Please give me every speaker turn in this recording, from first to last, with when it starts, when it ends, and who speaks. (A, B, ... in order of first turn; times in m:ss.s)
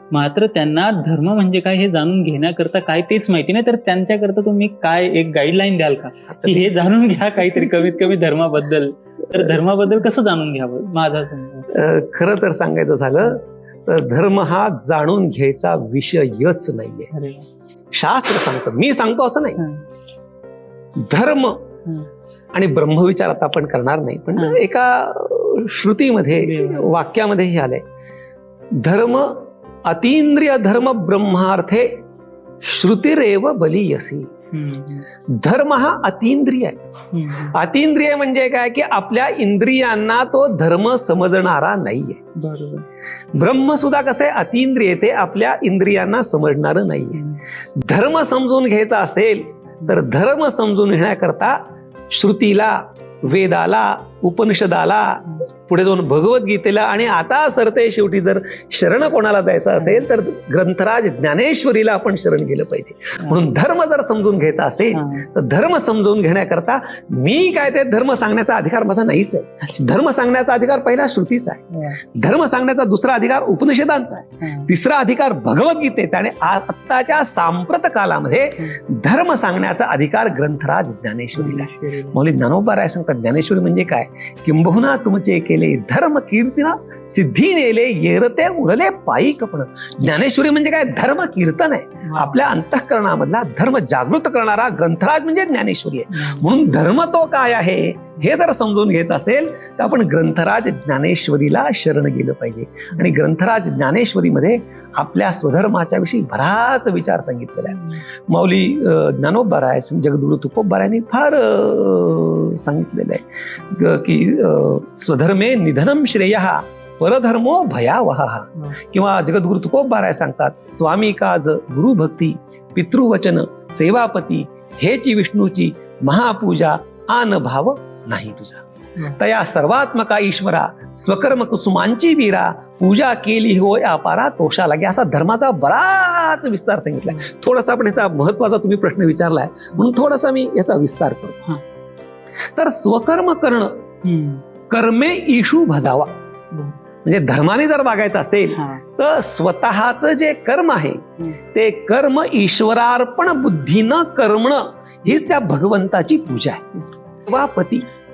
0:00.1-0:11.7 A
0:06.3-0:06.8 B
0:11.7-0:17.1 B
0:17.1-0:17.5 A
0:17.9-0:19.6 B
0:19.6-0:19.8 A
0:21.0-0:21.7 B
0:22.5-0:27.8 B
0:24.4-0:24.6 A
0:26.4-0:26.9 A
0:28.7-0:32.0 B
0:32.6-0:34.3 B
0:34.5-0:35.0 A
0:35.3-0:36.8 B
0:37.1-0:37.6 A
0:37.5-0:42.2 B
0:42.4-0:42.8 A
0:43.3-0:47.2 B
0:47.1-0:47.4 A
0:47.8-0:51.6 B
0:52.1-2:21.4 B
0:59.8-1:00.1 A
1:04.9-1:05.3 A
1:11.7-1:12.0 A
1:14.4-1:14.7 A
1:21.3-1:22.2 A
1:32.0-1:32.4 A
1:36.1-1:36.5 A
1:47.7-1:48.0 A
2:17.1-2:17.3 A
2:22.5-2:23.8 B
2:24.0-2:24.4 A
2:24.7-2:26.1 B
2:27.0-2:36.7 B
2:28.5-2:28.8 A
2:37.2-2:37.9 B